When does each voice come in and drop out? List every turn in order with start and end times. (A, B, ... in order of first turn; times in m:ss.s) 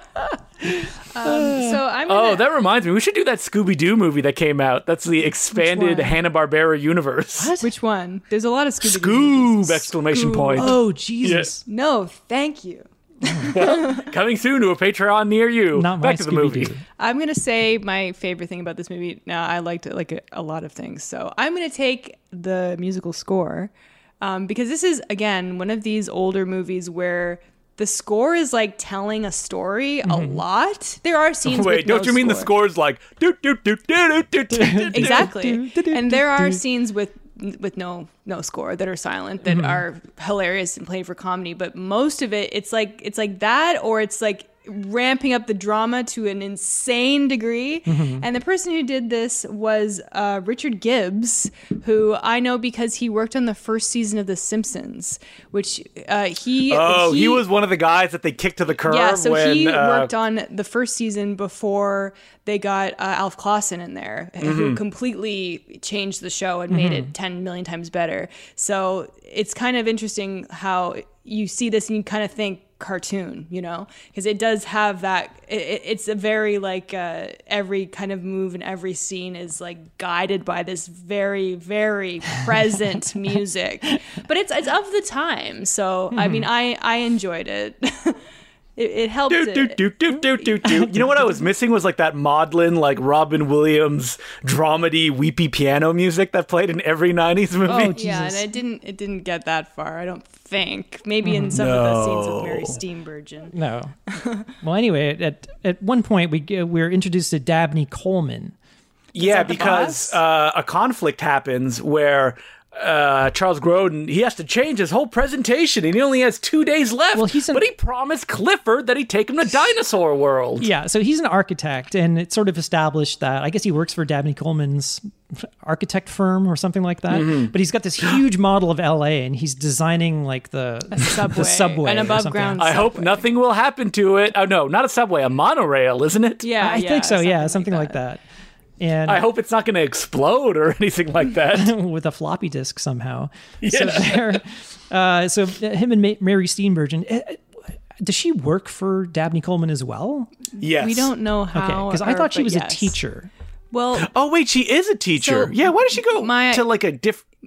0:01.1-0:02.4 A
0:01.2-0:01.8 B
0:02.1-0:07.5 C
0:05.6-0:06.1 B
0:07.4-0:07.7 B
0:07.6-0:10.8 A
0:08.8-0:11.5 C
0:10.6-0:11.6 B
0:11.7-0:14.1 A
0:13.2-0:13.5 B
0:13.5-0:16.7 C
0:15.8-0:16.8 B
0:17.0-0:32.5 A
0:30.0-0:30.4 B
0:31.4-0:35.3 C
0:34.5-0:36.6 B
0:34.9-0:57.4 A
0:39.4-0:39.8 B
0:47.9-0:48.2 B
0:56.7-1:00.1 C
0:58.8-1:28.2 A
1:04.4-1:04.8 C
1:06.7-1:07.1 B
1:26.1-1:26.5 B
1:28.8-1:29.8 A
1:29.3-1:38.0 C
1:30.6-1:31.1 B
1:37.6-1:43.5 A
1:37.7-1:38.5 B
1:41.2-1:41.6 B
1:41.5-1:42.8 C
1:43.5-1:44.0 B
1:44.1-1:44.5 A
1:44.6-1:48.6 B
1:49.1-2:00.7 C
1:49.2-1:50.2 A
1:49.5-1:49.9 B
1:57.1-1:57.7 B
2:00.6-2:12.7 B
2:07.1-2:07.5 C
2:10.9-2:13.2 A
2:12.6-2:16.5 C
2:16.4-2:18.0 A
2:16.6-2:18.2 B
2:18.8-2:19.3 B
2:19.1-2:21.7 C
2:21.5-2:27.4 B
2:23.6-2:24.4 C
2:28.0-2:30.3 B
2:30.6-2:33.0 A
2:30.6-2:31.1 C
2:31.5-2:33.3 B
2:33.7-2:34.1 A
2:34.0-2:37.2 C
2:35.2-2:36.7 A